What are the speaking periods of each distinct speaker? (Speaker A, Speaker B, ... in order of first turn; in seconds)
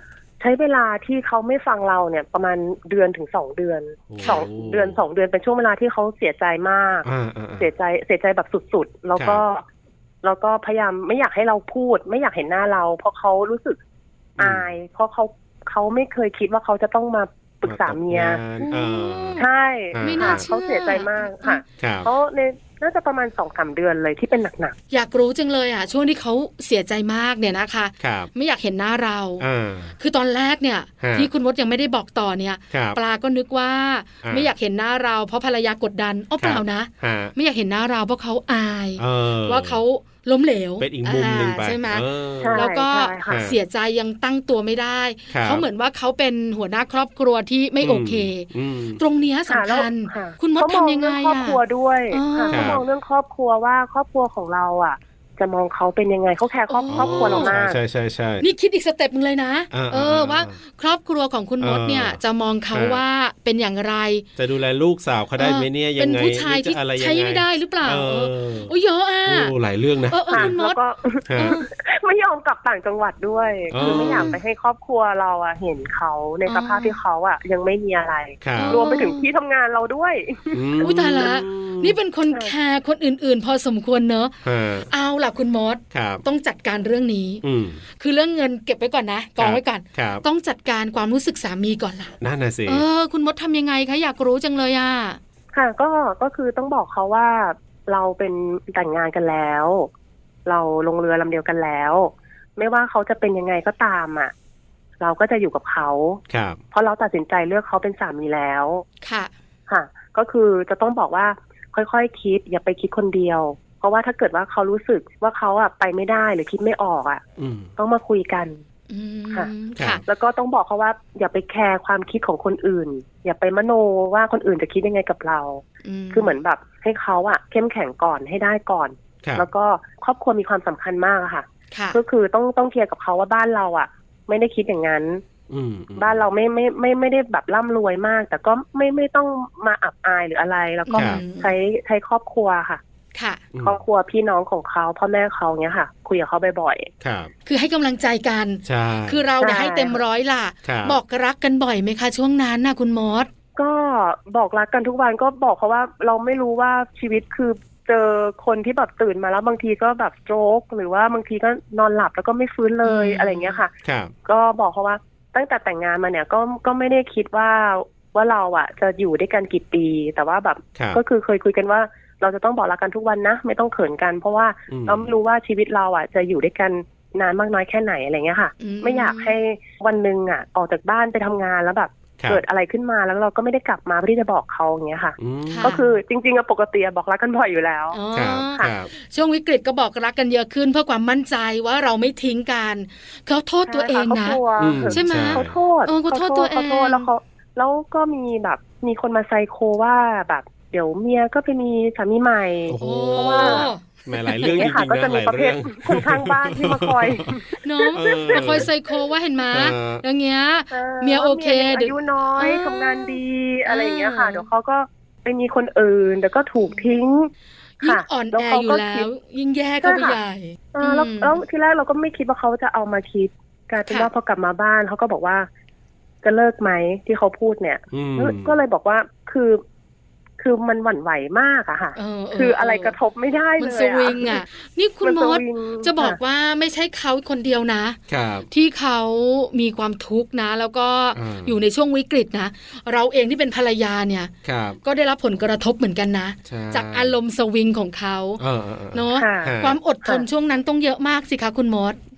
Speaker A: 0.4-9.6, 10.2-13.8, 14.4-18.4, 19.4-24.8, 42.4-43.4, 49.5-57.8, 70.3-81.3, 95.5-99.9, 100.5-104.3, 105.0-106.2, 106.7-108.8, 109.7-117.2, 117.8-118.6, 120.1-135.2, 136.0-142.8, 143.6-146.9, 149.4-150.0, 153.6-163.7, 164.2-188.0, 193.7-203.7, 204.4-208.7, 210.7-217.3, 217.8-219.1, 219.8-220.2, 220.7-225.5, 226.2-229.6, 230.4-234.4, 235.0-236.2, 249.2-250.3
Speaker B: 4.1-5.0, 7.0-7.7, 9.2-9.4, 14.4-14.7, 17.6-19.4, 19.9-20.4, 21.8-22.1, 28.0-28.3, 29.4-29.9, 31.0-31.3, 32.7-33.0, 34.2-34.5, 36.4-37.3, 39.0-39.8, 40.8-42.6, 43.3-43.6, 45.3-45.6, 47.8-49.0, 52.5-52.8, 56.9-58.5, 59.7-60.5, 61.6-62.2, 62.7-63.0, 64.4-68.7, 69.2-70.5, 71.3-71.6, 73.7-74.3, 78.4-78.8, 80.5-82.0, 84.5-84.9, 85.9-86.2, 87.4-87.8, 89.4-90.2, 92.2-92.8, 106.3-106.6, 117.4-117.7, 119.8-120.0, 135.5-136.2, 140.9-141.2, 143.5-143.8, 147.0-147.3, 148.7-149.2, 150.7-151.0, 163.8-164.1, 170.8-171.0, 174.7-175.1, 185.2-185.8, 188.1-188.9, 194.6-195.6, 202.7-207.3, 207.9-208.7, 209.5-210.0, 227.9-228.6, 238.1-238.5, 241.1-241.6, 244.4-244.8, 246.5-247.1, 248.4-249.8
Speaker C: 4.2-4.5, 18.6-19.5, 20.0-21.6, 24.9-29.4, 30.0-51.6, 52.1-52.7, 56.7-57.6, 58.4-64.2, 65.4-69.5, 70.1-70.8, 71.4-71.7, 73.8-74.4, 76.5-77.0, 78.5-79.3, 80.8-84.4, 84.9-87.4, 88.0-95.2, 109.0-109.3, 118.9-120.0, 125.8-126.4, 131.7-132.0, 140.9-141.5, 143.1-143.4, 147.5-153.3, 162.8-163.6, 178.6-179.3, 185.5-185.8, 187.9-197.1, 202.8-204.7, 207.6-214.5, 217.8-221.4, 232.0-233.0, 233.6-238.0, 238.5-244.3, 244.8-248.4, 248.9-252.0